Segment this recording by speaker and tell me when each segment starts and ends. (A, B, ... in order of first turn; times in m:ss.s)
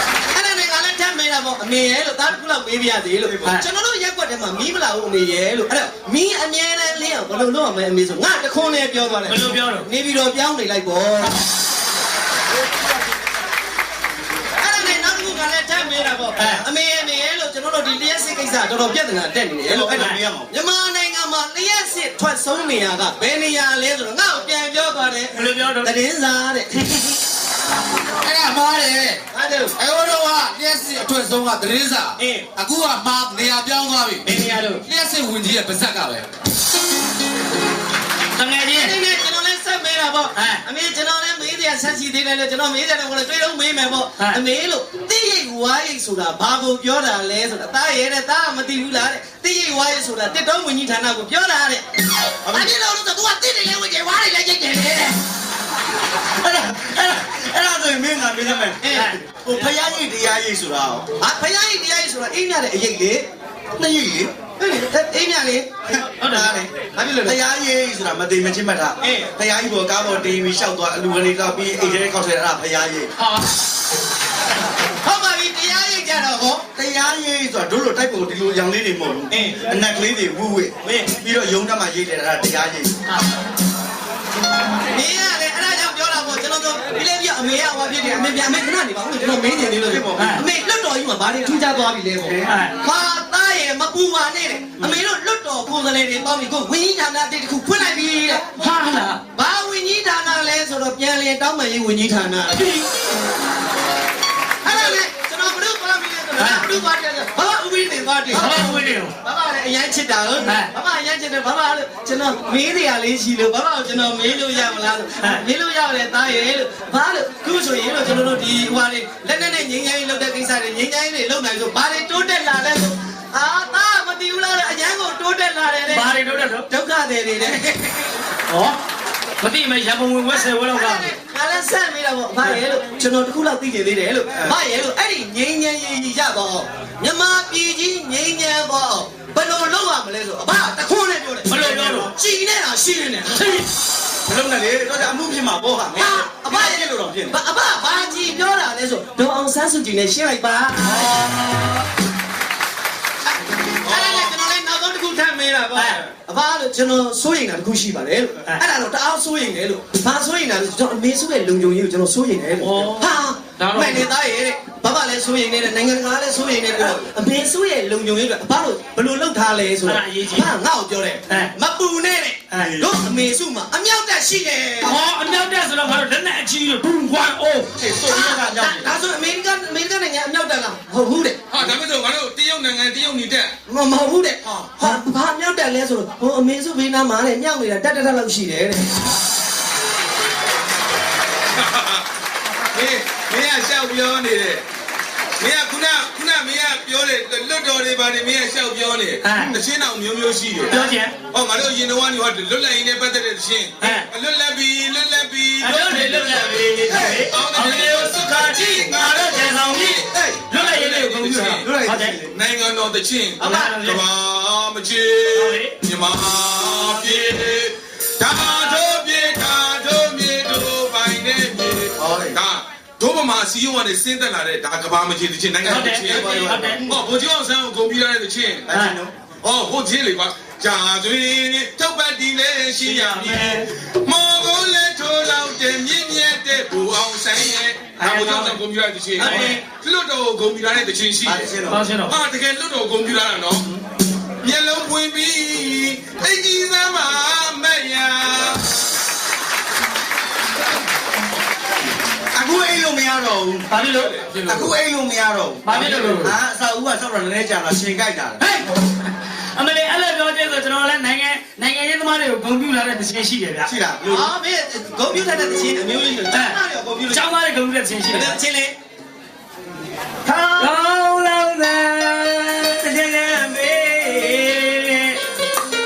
0:00.3-0:11.4 A
0:09.3-0:09.9 B
0:14.6-0:27.2 A
0:16.4-0:16.6 B
0:19.7-0:20.5 C
0:25.3-0:25.9 B
0:28.2-0:29.2 D
0:29.3-0:29.8 A
0:29.8-0:34.3 D
0:32.2-0:32.5 A
0:34.2-0:34.8 A
0:34.8-0:36.3 D
0:38.3-0:39.0 B
0:38.7-0:51.9 A
0:40.4-0:40.6 B
0:52.4-0:52.7 C
0:52.5-0:55.2 A
0:56.2-1:01.1 C
0:58.8-0:59.1 A
1:01.2-1:03.3 A
1:03.8-1:04.3 C
1:04.6-1:07.4 A
1:05.9-1:06.7 C
1:07.2-1:13.1 C
1:09.0-1:09.3 A
1:15.0-1:16.6 A
1:16.8-1:22.9 C
1:19.3-1:19.7 A
1:20.8-1:21.1 A
1:24.9-1:38.7 A
1:29.8-1:30.4 C
1:30.2-1:30.4 B
1:32.2-1:32.5 C
1:32.4-1:32.8 B
1:38.6-1:39.2 B
1:39.3-1:42.8 A
1:44.6-1:48.6 A
1:46.4-1:46.6 B
1:48.4-1:49.1 B
1:49.2-2:06.1 A
1:50.4-1:50.7 B
2:05.9-2:06.7 B
2:06.7-2:08.0 A
2:08.5-2:08.8 B
2:09.4-2:11.1 B
2:10.7-2:23.7 A
2:21.5-2:22.1 B
2:24.3-2:27.4 C
2:25.9-2:31.2 A
2:31.0-2:31.8 B
2:33.8-2:55.0 A
2:42.6-2:43.9 B
2:49.8-2:50.5 B
2:52.6-2:52.9 C
2:54.8-2:57.7 B
2:57.8-2:58.9 C
2:58.1-3:01.4 A
3:01.5-3:03.5 E
3:03.7-3:08.9 A
3:11.5-3:12.1 E
3:12.7-3:14.6 E
3:15.4-3:31.7 E
3:19.2-3:19.5 B
3:20.7-3:21.1 B
3:23.8-3:24.1 B
3:25.6-3:32.2 B
3:31.6-3:32.3 C
3:32.3-3:48.8 E
3:33.4-3:33.7 C
3:33.4-3:33.7 A
3:33.4-3:34.0 B
3:35.3-3:35.7 B
3:42.0-3:42.4 C
3:45.6-3:46.8 B
3:45.7-3:47.0 C
3:48.7-3:49.1 C
3:48.7-3:49.0 B
3:49.4-4:03.8 E
3:52.8-3:53.7 B
3:58.0-3:58.6 B
3:59.2-3:59.6 A
3:59.2-3:59.6 B
4:01.2-4:01.8 C
4:01.7-4:02.2 B
4:04.4-4:08.7 E
4:12.3-4:13.7 C
4:13.7-4:14.2 B
4:13.8-4:14.3 E
4:14.3-4:14.7 D
4:14.5-4:18.4 C
4:15.6-4:16.4 B
4:18.4-4:23.7 B
4:23.7-4:24.3 C
4:24.1-4:27.3 A
4:26.3-4:26.6 B
4:27.1-4:28.3 B
4:28.1-4:28.7 A
4:30.3-4:35.2 B